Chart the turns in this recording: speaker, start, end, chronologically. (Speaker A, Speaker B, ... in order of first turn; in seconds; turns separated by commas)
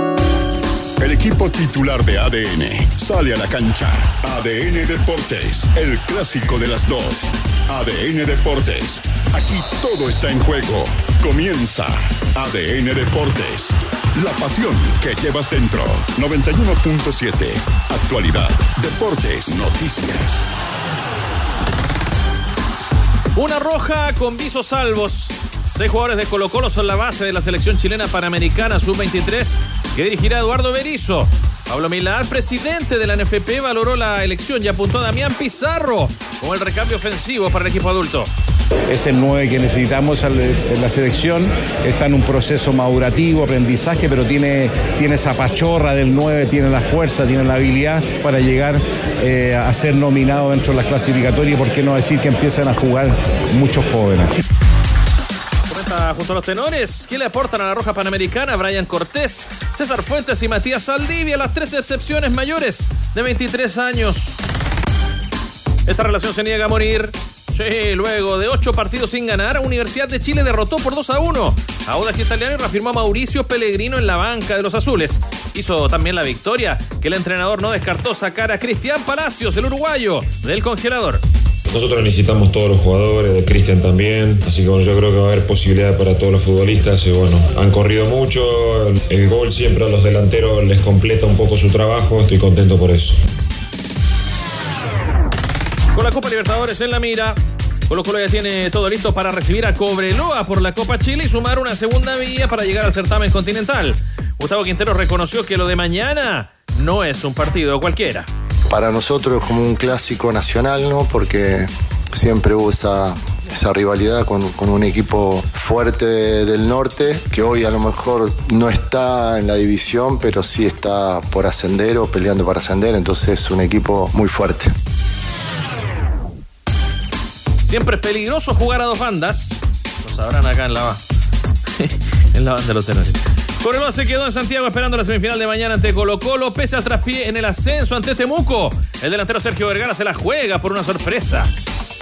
Speaker A: 1.0-20.4, Speaker B: 23.3-38.3, Speaker C: 38.9-54.3, Speaker B: 55.7-64.4, Speaker B: 65.9-81.2, Speaker D: 81.7-93.2, Speaker B: 95.9-108.3, Speaker E: 108.7-124.7, Speaker B: 127.7-131.0, Speaker B: 131.8-141.5